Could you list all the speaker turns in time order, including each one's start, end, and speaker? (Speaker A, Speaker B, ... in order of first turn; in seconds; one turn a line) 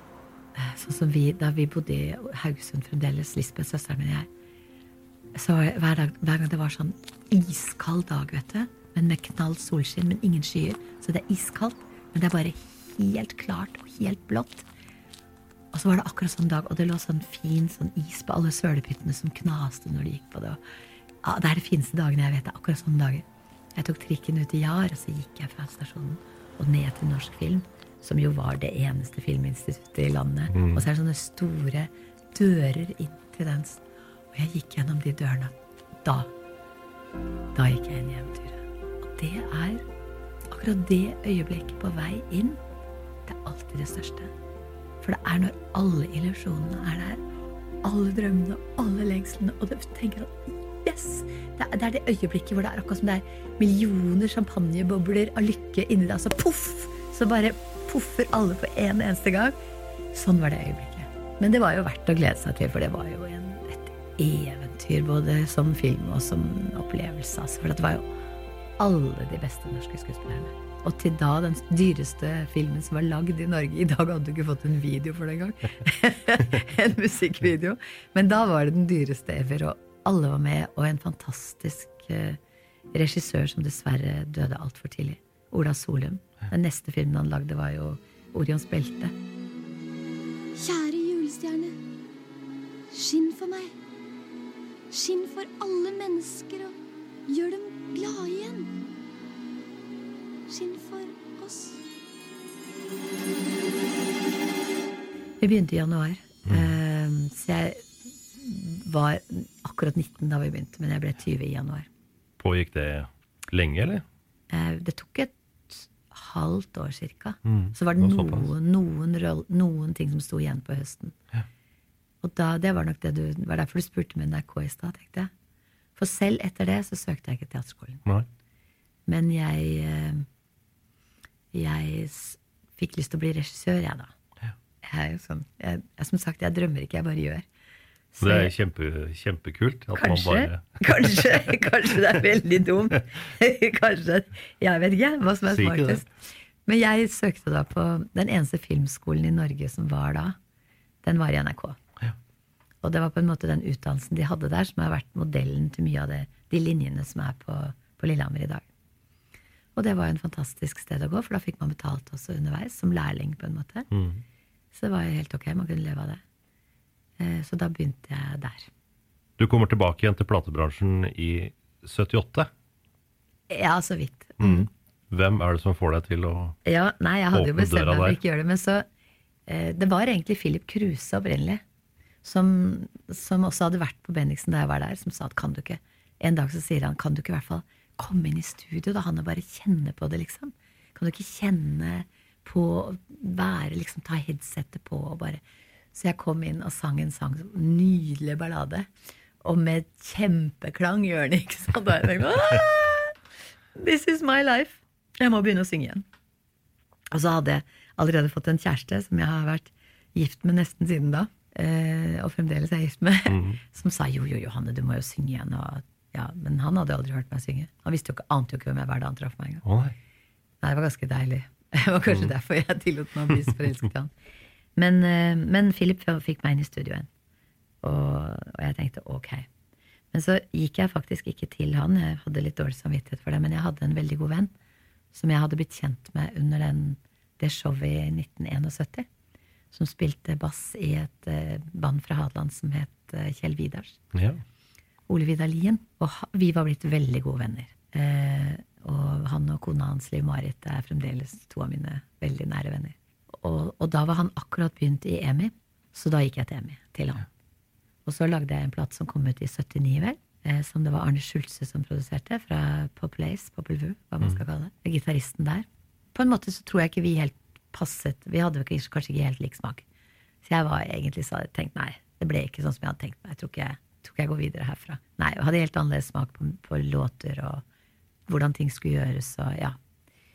Speaker A: 0.5-4.3
Speaker A: 5.3-14.7
Speaker A: 15.7-20.6
Speaker A: 21.2-23.2
Speaker A: 23.7-33.8
Speaker B: 30.5-30.8
Speaker A: 34.3-36.3
Speaker A: 37.5-39.8
Speaker A: 40.5-42.6
Speaker A: 43.2-44.3
Speaker A: 45.0-47.2
Speaker A: 47.8-59.5
Speaker A: 60.1-68.0
Speaker A: 68.8-82.4
Speaker A: 82.9-89.1
Speaker C: 90.6-91.8
Speaker C: 92.9-93.7
Speaker C: 94.9-96.7
Speaker C: 97.3-98.7
Speaker C: 100.5-101.8
Speaker A: 105.4-111.9
Speaker B: 106.5-106.7
Speaker B: 112.4-114.0
Speaker A: 114.5-121.1
Speaker B: 117.5-118.5
Speaker A: 122.2-125.3
Speaker A: 126.0-128.0
Speaker A: 129.1-130.2
Speaker A: 131.5-134.1
Speaker A: 134.8-137.4
Speaker A: 138.1-138.5
Speaker B: 138.2-141.5
Speaker A: 139.9-146.1
Speaker B: 145.5-146.0
Speaker A: 146.7-150.4
Speaker A: 151.0-151.8
Speaker A: 152.8-158.7
Speaker A: 159.8-163.9
Speaker B: 163.9-164.2
Speaker A: 164.7-166.2
Speaker A: 167.2-168.7
Speaker B: 169.4-172.5
Speaker A: 173.5-174.7
Speaker B: 174.4-176.6
Speaker A: 176.7-178.8
Speaker B: 177.3-178.2
Speaker A: 179.5-181.6
Speaker A: 182.2-195.4
Speaker A: 195.9-198.9
Speaker A: 199.4-203.1
Speaker A: 203.8-206.0
Speaker A: 207.1-219.6
Speaker B: 213.3-213.6
Speaker B: 219.6-219.9
Speaker A: 220.6-224.1
Speaker A: 224.8-227.1
Speaker A: 227.8-229.5
Speaker A: 230.1-234.5
Speaker A: 235.1-239.1
Speaker A: 239.7-244.0
Speaker B: 244.1-244.4
Speaker A: 245.1-257.2
Speaker A: 258.0-269.8
Speaker A: 270.4-277.6
Speaker A: 278.3-279.8